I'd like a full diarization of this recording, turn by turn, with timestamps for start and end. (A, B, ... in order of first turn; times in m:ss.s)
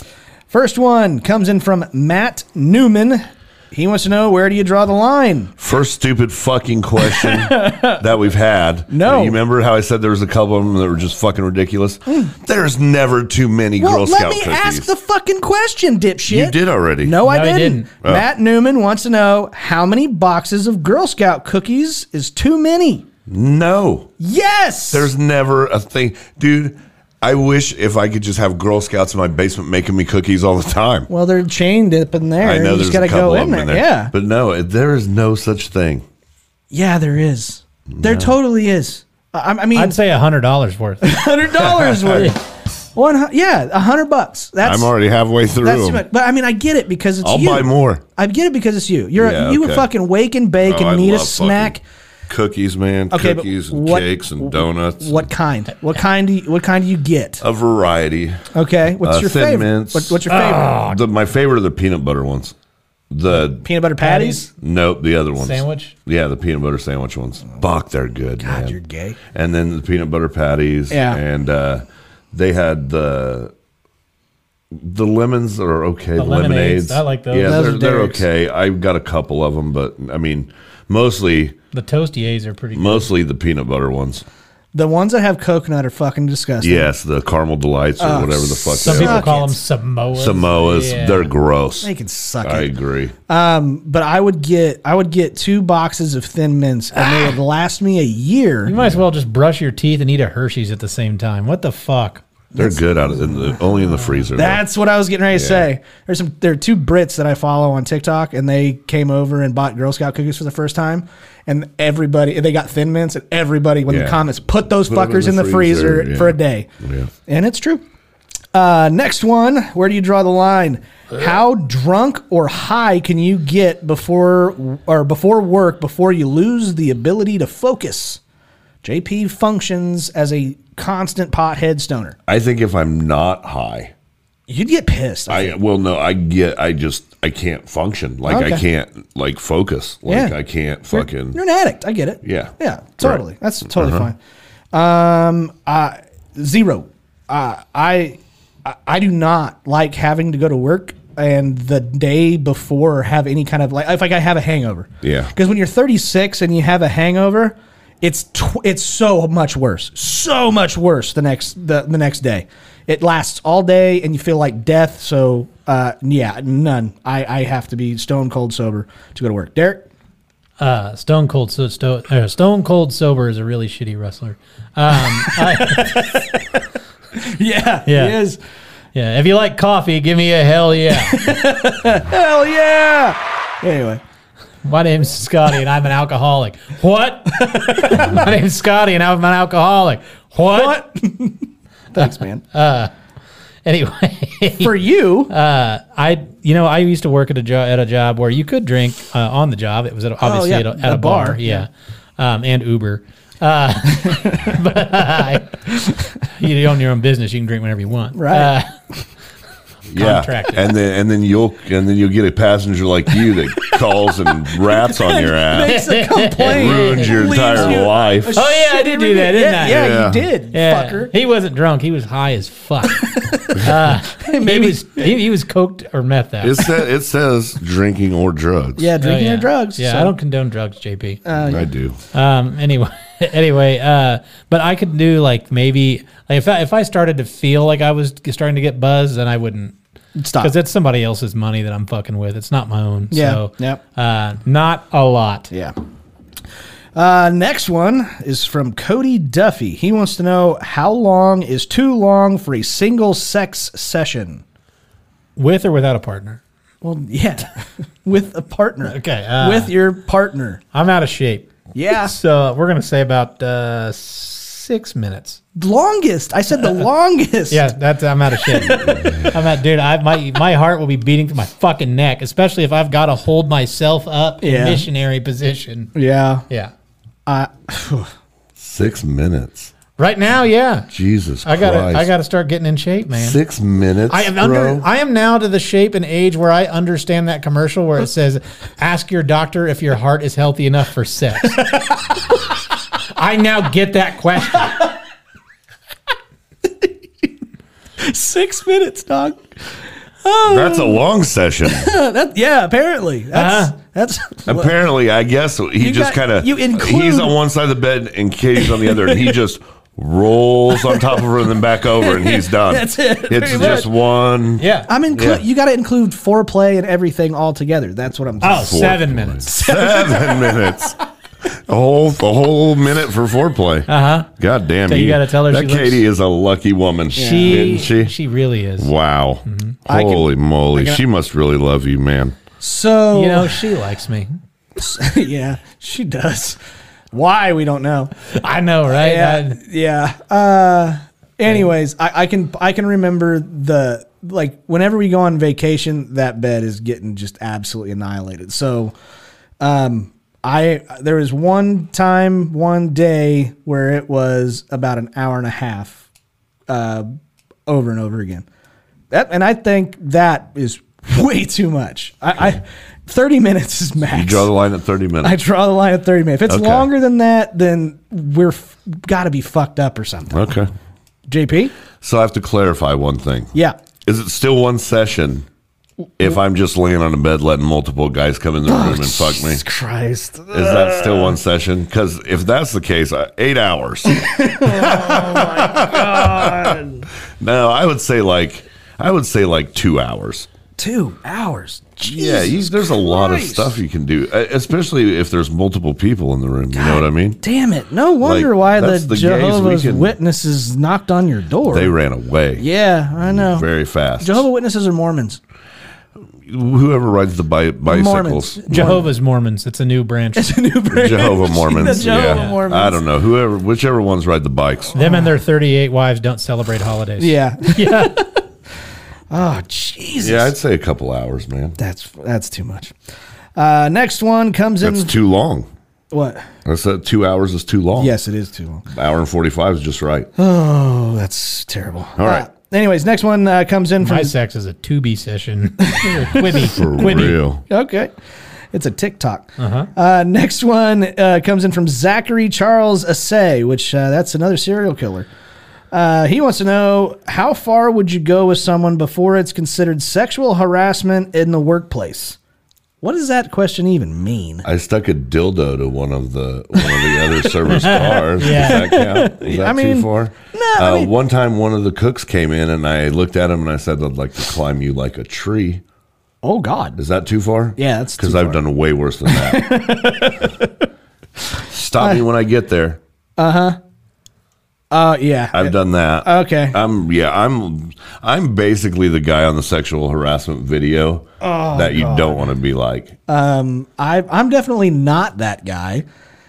0:00.5-0:05.5 A
0:05.6-0:14.9 B
0:07.0-0:08.0 A
0:08.9-0:09.4 A
0:12.1-0:12.3 A
0:13.8-0:23.0 A
0:16.3-0:17.2 B
0:17.2-0:17.9 C
0:23.3-0:24.1 B
0:24.2-0:25.1 A
0:24.9-0:31.1 B
0:31.1-0:34.1 A
0:32.4-0:36.0 B
0:36.7-0:40.0 A
0:37.9-0:38.3 B
0:39.7-0:41.1 C
0:41.0-0:42.4 A
0:41.6-0:42.3 B
0:43.0-0:44.9 A
0:44.6-0:46.0 B
0:45.6-0:51.8 A
0:47.2-0:48.0 B
0:49.2-0:49.9 B
0:50.6-0:51.7 B
0:52.3-0:55.3 B
0:53.1-0:57.4 A
0:57.4-0:58.4 B
0:58.5-1:00.8 A
0:59.0-1:02.6 B
1:00.3-1:01.0 C
1:03.1-1:03.6 B
1:03.6-1:04.5 A
1:04.0-1:04.4 C
1:04.6-1:08.8 B
1:05.4-1:05.9 C
1:08.4-1:09.2 A
1:09.3-1:13.5 B
1:10.9-1:11.2 A
1:14.7-1:21.6 B
1:16.2-1:17.7 C
1:17.4-1:18.2 A
1:21.7-1:23.1 C
1:22.7-1:24.2 B
1:24.7-1:26.9 A
1:26.6-1:29.3 B
1:28.0-1:29.6 A
1:28.8-1:31.3 C
1:30.2-1:31.9 B
1:31.8-1:32.7 A
1:32.4-1:33.1 B
1:33.3-1:38.8 A
1:37.0-1:37.3 C
1:38.6-1:42.2 C
1:42.5-1:43.3 A
1:42.6-1:44.6 B
1:44.3-1:56.7 A
1:45.3-1:45.7 B
1:53.9-1:54.2 B
1:54.8-1:57.1 B
1:57.3-1:57.8 A
1:58.5-2:08.2 A
2:08.8-2:12.2 A
2:12.3-2:13.9 B
2:14.5-2:15.6 A
2:15.3-2:21.4 B
2:18.3-2:18.6 A
2:20.1-2:20.4 A
2:20.9-2:24.2 A
2:22.2-2:23.2 B
2:23.7-2:24.1 B
2:24.7-2:49.8 A
2:35.0-2:35.3 B
2:50.6-2:56.0 C
2:55.2-2:56.5 A
2:57.2-2:58.4 A
2:57.9-2:58.2 C
2:59.0-3:01.3 C
3:01.0-3:04.0 A
3:04.6-3:10.8 C
3:07.3-3:08.2 A
3:10.5-3:12.4 A
3:12.0-3:12.9 C
3:13.6-3:25.6 C
3:14.6-3:15.3 A
3:20.2-3:21.6 A
3:24.1-3:24.4 A
3:26.2-3:28.7 C
3:28.1-3:28.5 A
3:29.9-3:35.8 B
3:30.0-3:30.6 C
3:33.7-3:34.0 A
3:34.5-3:41.1 A
3:35.7-3:37.8 C
3:36.4-3:38.4 B
3:38.3-3:39.9 C
3:39.7-3:40.3 B
3:40.5-3:46.6 C
3:43.0-3:45.2 A
3:46.4-3:48.9 B
3:48.8-3:50.1 A
3:49.0-3:51.2 C
3:51.3-3:51.7 A
3:51.4-3:52.0 B
3:52.1-3:59.8 C
4:00.2-4:00.5 A
4:00.4-4:05.5 C
4:03.1-4:03.8 A
4:07.0-4:14.4 A
4:15.4-4:16.4 C
4:16.8-4:17.5 A
4:18.0-4:20.6 A
4:18.8-4:19.7 C
4:20.7-4:25.4 C
4:21.7-4:22.1 A
4:25.6-4:27.6 A
4:27.5-4:35.9 C
4:28.5-4:29.2 A
4:29.0-4:29.3 B
4:34.4-4:34.9 A
4:36.0-4:36.4 A
4:37.3-4:38.1 A
4:38.6-4:39.7 B
4:40.0-4:40.9 C
4:40.9-4:42.1 B
4:41.4-4:43.4 C
4:43.1-4:44.9 B
4:44.1-4:51.7 C
4:53.1-4:54.9 C
4:58.0-4:59.5 A
5:00.2-5:01.0 A
5:00.4-5:01.9 B
5:01.7-5:04.7 A
5:03.3-5:03.7 C
5:04.5-5:15.4 B
5:05.8-5:07.4 A
5:08.6-5:09.4 A
5:10.7-5:11.3 A
5:11.8-5:13.9 A
5:13.5-5:13.8 C
5:14.6-5:14.9 C
5:14.9-5:18.8 A
5:18.4-5:19.5 C
5:18.6-5:21.0 B
5:19.4-5:21.0 A
5:21.5-5:28.1 B
5:23.9-5:24.3 C
5:24.9-5:26.0 C
5:27.2-5:27.8 A
5:27.2-5:28.9 C
5:28.8-5:32.4 B
5:29.4-5:29.8 C
5:29.9-5:31.0 A
5:32.6-5:33.6 A
5:33.1-5:34.4 C
5:34.8-5:36.6 A
5:37.1-5:38.1 A
5:38.3-5:39.6 C
5:38.9-5:48.9 A
5:49.6-5:56.0 A
5:56.7-5:57.1 A
5:57.7-5:58.4 A
5:59.1-6:04.5 A
6:04.1-6:05.4 B
6:05.2-6:10.4 A
6:06.5-6:06.9 B
6:10.3-6:10.7 B
6:11.3-6:11.7 A
6:12.0-6:13.5 B
6:14.0-6:15.4 B
6:16.2-6:19.6 B
6:18.7-6:21.4 A
6:20.5-6:26.8 B
6:24.1-6:27.1 A
6:27.4-6:30.5 B
6:30.8-6:33.8 A
6:32.0-6:37.4 B
6:36.7-6:41.9 A
6:38.2-6:40.1 B
6:41.7-6:42.6 B
6:42.6-6:43.7 A
6:43.2-6:44.4 B
6:44.2-6:45.4 A
6:46.4-6:49.0 B
6:47.8-6:49.0 A
6:48.7-6:50.5 C
6:50.4-6:53.0 A
6:50.9-6:55.0 B
6:51.8-6:52.6 C
6:54.9-6:58.2 C
6:55.0-6:55.3 A
6:57.2-6:58.4 A
6:59.3-7:00.5 A
7:00.2-7:01.7 B
7:01.8-7:02.9 A
7:03.6-7:05.1 A
7:04.8-7:05.7 B
7:06.1-7:06.5 A
7:06.6-7:08.1 B
7:08.0-7:08.8 A
7:08.9-7:10.3 B
7:10.4-7:14.3 A
7:12.2-7:12.4 B
7:14.0-7:17.4 C
7:15.9-7:18.1 A
7:16.6-7:17.6 B
7:18.7-7:25.3 A
7:19.6-7:19.9 C
7:25.9-7:32.4 A
7:33.0-7:34.6 A
7:34.6-7:45.8 B
7:36.8-7:41.1 A
7:37.7-7:38.8 C
7:46.4-7:47.0 A
7:47.0-7:49.7 B
7:47.8-7:48.6 A
7:49.2-7:50.8 A
7:51.5-7:52.2 A
7:51.7-7:53.0 B
7:53.4-7:53.8 A
7:54.9-7:56.8 A
7:55.5-8:03.1 B
8:01.4-8:02.5 A
8:03.3-8:06.0 A